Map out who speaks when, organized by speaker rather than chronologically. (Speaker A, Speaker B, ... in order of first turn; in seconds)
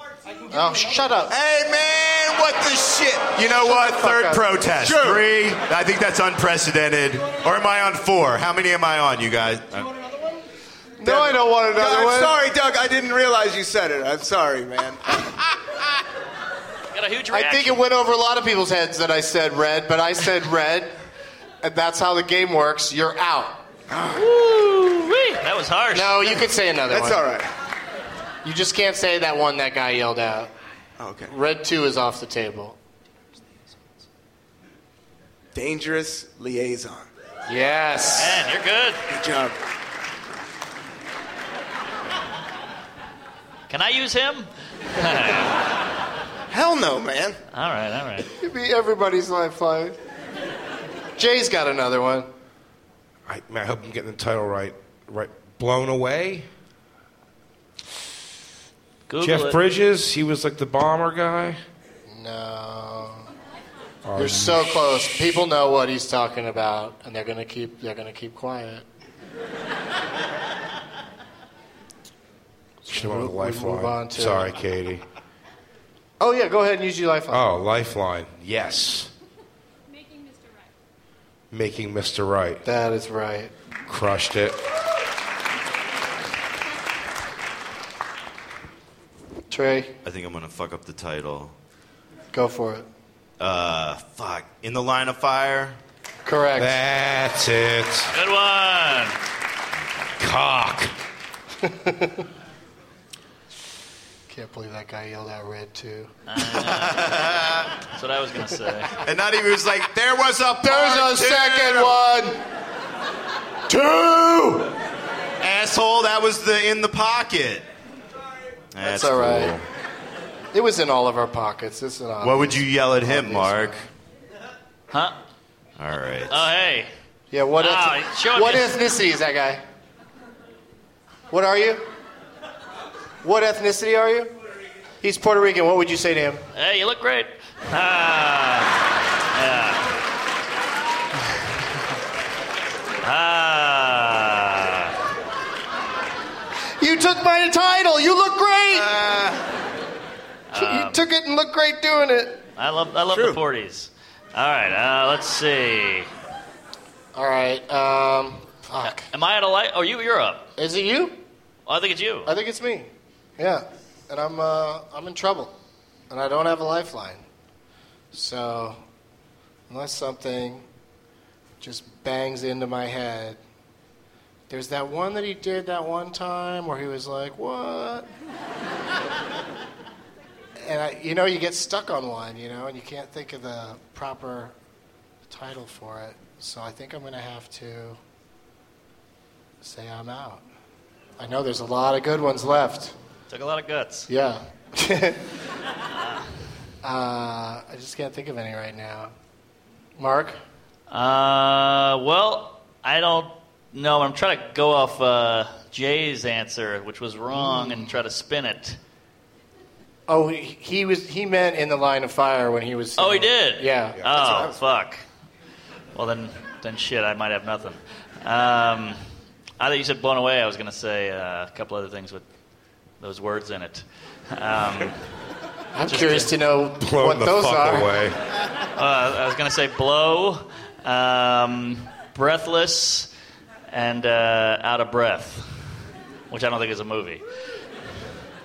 Speaker A: 0.5-1.4, 3.5-4.5, 11.0-12.4, 17.3-20.9, 21.6-23.6, 25.9-27.2, 28.4-30.5, 31.3-32.8, 37.5-38.4, 48.4-50.0, 51.2-52.3, 62.1-63.3, 64.2-68.8, 72.8-74.5, 76.2-77.5, 82.6-83.5, 89.5-89.9, 92.3-92.9, 96.2-96.8, 101.6-102.2, 104.3-106.1, 110.6-112.4, 113.7-114.7, 118.8-119.5, 120.5-123.9, 127.3-129.6, 131.3-131.9, 133.2-134.3, 135.0-136.4, 146.8-148.9, 150.5-152.4, 157.1-159.1, 160.6-161.2, 162.2-165.5, 166.1-167.2, 168.1-168.8, 169.7-170.7, 171.6-173.4, 174.5-178.1, 180.6-184.5, 185.3-188.0, 189.6-190.4, 191.2-192.9, 194.1-195.2, 196.8-199.1, 200.0-200.4, 207.3-208.0, 210.1-214.0, 225.7-227.9
Speaker B: 1.3-9.9, 90.0-91.5, 93.4-95.8, 106.6-107.7, 108.9-112.0, 115.4-117.7, 118.7-119.6, 122.2-123.8, 125.8-126.4, 148.8-149.4
Speaker C: 4.8-5.2, 11.0-15.2, 23.9-24.3, 26.9-27.5, 31.0-31.3, 35.5-37.1, 39.1-39.5, 46.5-47.4, 153.1-153.4, 214.1-214.6
Speaker D: 16.9-17.8, 24.1-26.3, 38.2-39.0, 43.7-45.6, 47.5-48.3, 59.1-59.6, 98.1-99.2, 106.3-107.1, 107.9-108.9, 124.9-125.2, 126.3-126.9, 127.6-128.7, 136.5-139.9, 143.0-145.0, 150.5-151.0, 152.6-156.1, 158.8-160.4, 161.7-162.3, 193.3-194.1, 200.9-208.8, 212.9-215.0, 215.9-219.0, 219.6-222.2, 223.0-225.0, 225.9-226.3, 228.8-233.1, 233.7-235.5, 236.3-237.2
Speaker E: 53.3-56.5, 59.2-61.6, 64.0-64.7, 72.9-75.0, 77.3-79.1, 81.5-82.6, 83.9-84.5, 96.6-98.1, 100.2-100.9, 226.8-228.2